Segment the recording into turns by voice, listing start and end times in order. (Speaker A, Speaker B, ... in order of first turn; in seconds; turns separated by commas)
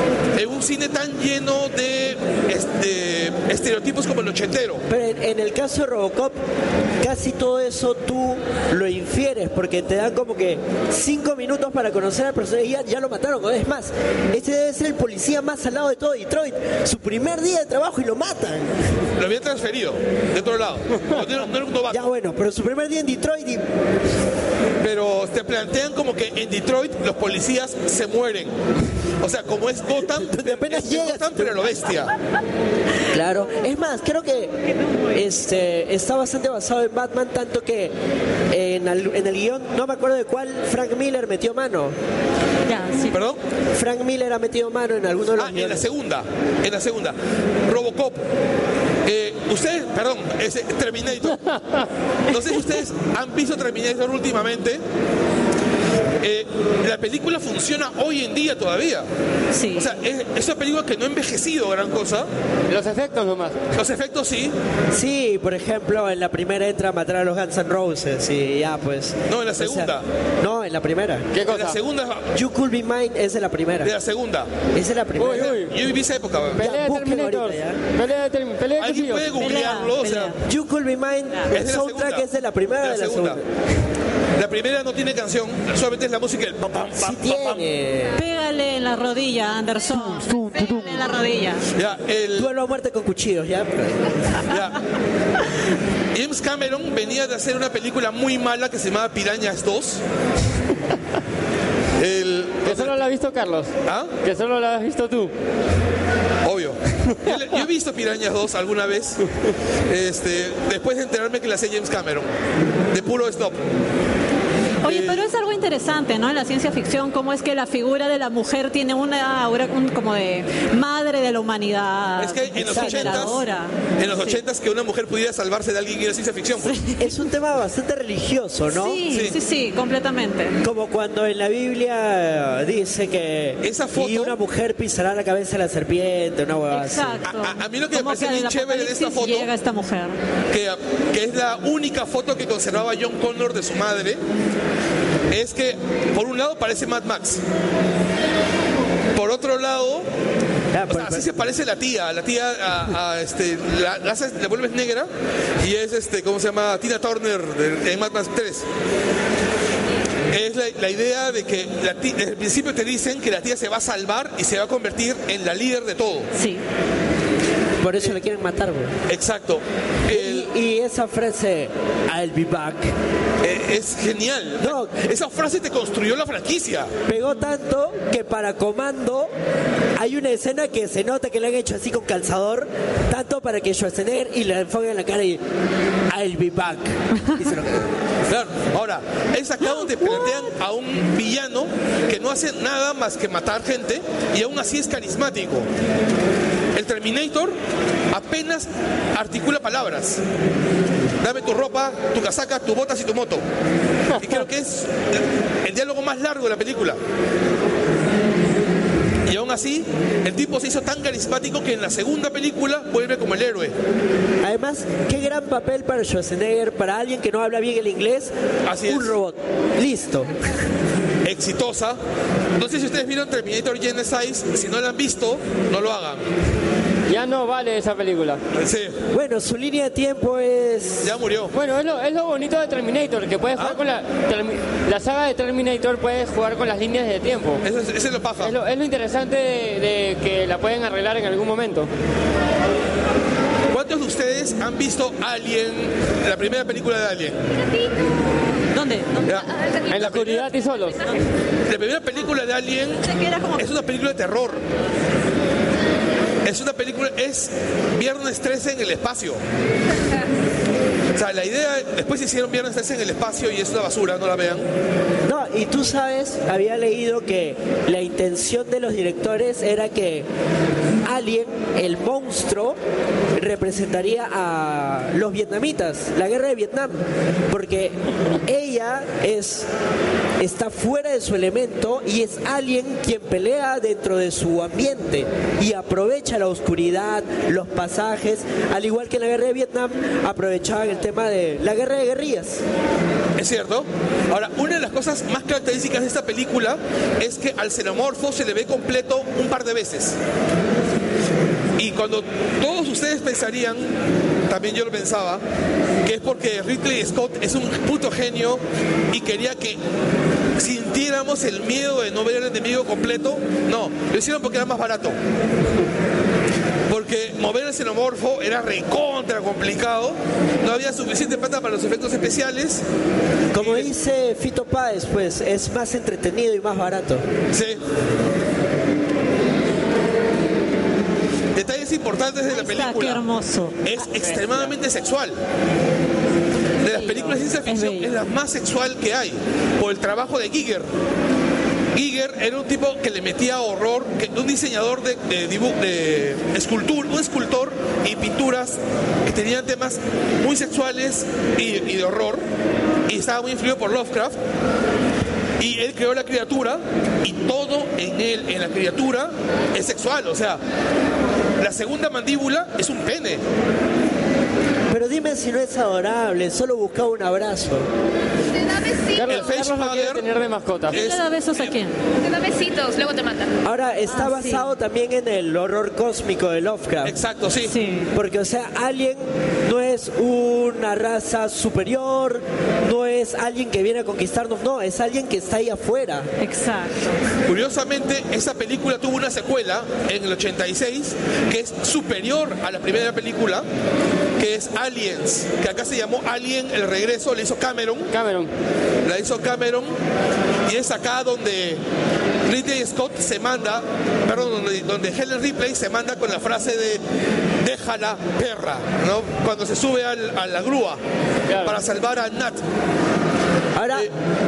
Speaker A: 0.3-4.8, Speaker B: 4.9-6.4, Speaker B: 7.0-18.8, Speaker A: 19.2-22.0, Speaker B: 21.9-23.6, Speaker A: 24.8-28.5, Speaker A: 29.2-32.1, Speaker B: 30.0-31.7, Speaker B: 33.1-34.5, Speaker B: 35.1-37.9, Speaker B: 38.5-42.0, Speaker C: 42.7-43.2, Speaker A: 43.1-43.4, Speaker B: 43.7-45.9, Speaker A: 45.4-47.1, Speaker A: 47.7-48.2, Speaker A: 49.0-51.4, Speaker A: 52.3-54.8, Speaker A: 56.2-59.1, Speaker C: 59.5-59.9, Speaker A: 59.8-62.3, Speaker D: 62.7-63.6, Speaker A: 63.7-64.5, Speaker B: 64.9-71.3, Speaker A: 69.3-70.0, Speaker D: 71.3-71.8, Speaker A: 71.5-72.3, Speaker B: 72.3-73.9, Speaker A: 73.8-74.5, Speaker B: 74.7-75.6, Speaker D: 75.2-75.7, Speaker A: 75.2-76.7, Speaker D: 76.6-79.3, Speaker B: 76.6-77.8, Speaker A: 78.8-80.3, Speaker C: 79.4-80.4, Speaker B: 80.4-83.4, Speaker A: 81.5-82.3, Speaker A: 82.8-83.4, Speaker A: 84.4-87.6, Speaker B: 87.0-88.2, Speaker C: 88.1-91.6, Speaker A: 91.7-92.5, Speaker B: 92.3-94.4, Speaker A: 94.5-94.8, Speaker A: 96.1-100.0, Speaker A: 102.0-103.0, Speaker D: 102.6-103.7, Speaker A: 103.9-104.1, Speaker D: 104.2-105.3, Speaker A: 106.4-109.2, Speaker A: 109.9-112.3, Speaker A: 112.9-113.6, Speaker C: 114.8-124.4, Speaker A: 114.8-115.2, Speaker A: 122.2-123.4, Speaker B: 122.6-123.4, Speaker A: 124.0-126.7, Speaker C: 126.6-127.1, Speaker B: 127.0-129.0, Speaker C: 128.7-130.6, Speaker A: 129.1-129.4, Speaker B: 130.6-137.2, Speaker A: 133.6-134.3, Speaker C: 136.7-140.1, Speaker A: 137.2-139.5, Speaker A: 140.5-144.2, Speaker A: 145.3-147.4, Speaker A: 149.1-150.1, Speaker B: 150.7-151.4, Speaker A: 150.9-155.1, Speaker A: 155.6-158.6, Speaker A: 160.3-166.3, Speaker C: 166.3-166.6, Speaker B: 167.8-168.9, Speaker A: 169.1-170.5, Speaker B: 170.1-172.9, Speaker A: 173.4-176.9, Speaker B: 174.6-175.0, Speaker B: 177.1-179.3, Speaker B: 179.9-185.4, Speaker B: 186.1-187.9, Speaker A: 188.3-195.7, Speaker C: 189.7-190.5, Speaker A: 196.7-197.6, Speaker A: 198.1-200.2, Speaker A: 201.2-203.4, Speaker D: 204.1-204.4, Speaker A: 204.2-207.0, Speaker A: 209.2-213.7, Speaker B: 214.4-218.3, Speaker A: 218.7-219.1, Speaker B: 218.8-220.4, Speaker A: 221.2-222.0, Speaker A: 222.6-226.2, Speaker D: 227.1-228.4, Speaker A: 228.5-229.0, Speaker B: 229.1-231.1, Speaker A: 231.0-231.5, Speaker D: 231.5-237.6, Speaker A: 237.6-238.5, Speaker D: 238.4-241.9, Speaker A: 243.7-247.4, Speaker C: 248.7-249.4, Speaker A: 249.2-250.5, Speaker E: 249.5-250.0, Speaker D: 249.9-251.1, Speaker E: 250.8-251.1, Speaker A: 251.7-253.0, Speaker C: 253.0-253.7, Speaker A: 253.6-254.6, Speaker A: 256.4-259.4, Speaker A: 261.1-264.6, Speaker B: 265.2-270.3, Speaker B: 271.0-272.8, Speaker B: 273.4-279.7, Speaker B: 280.4-292.6, Speaker A: 293.4-300.2, Speaker A: 301.8-303.9, Speaker A: 304.5-305.4, Speaker A: 306.0-309.8, Speaker A: 310.6-315.2, Speaker A: 316.9-322.8, Speaker B: 323.5-327.2, Speaker A: 323.6-323.9, Speaker A: 327.5-327.8, Speaker A: 331.5-333.2, Speaker C: 332.5-333.8, Speaker A: 333.8-335.4, Speaker D: 334.1-334.7, Speaker A: 336.8-340.9, Speaker C: 336.8-338.1, Speaker A: 341.9-352.4, Speaker A: 353.1-354.4, Speaker A: 355.6-360.6, Speaker A: 361.6-363.4, Speaker B: 364.9-367.9, Speaker E: 368.5-369.5, Speaker D: 369.1-371.0, Speaker A: 369.3-370.2, Speaker A: 370.9-371.7, Speaker C: 370.9-371.9, Speaker E: 372.2-373.5, Speaker B: 373.6-377.1, Speaker C: 374.1-374.7, Speaker A: 377.0-377.7, Speaker C: 377.6-378.1, Speaker B: 378.1-386.3, Speaker C: 386.4-387.1, Speaker A: 387.5-393.6, Speaker A: 394.4-398.1, Speaker D: 398.1-398.5, Speaker A: 399.0-399.9, Speaker A: 400.7-401.8, Speaker A: 402.4-407.0, Speaker A: 407.6-411.0, Speaker D: 411.5-411.8, Speaker A: 411.6-412.6, Speaker B: 413.7-414.1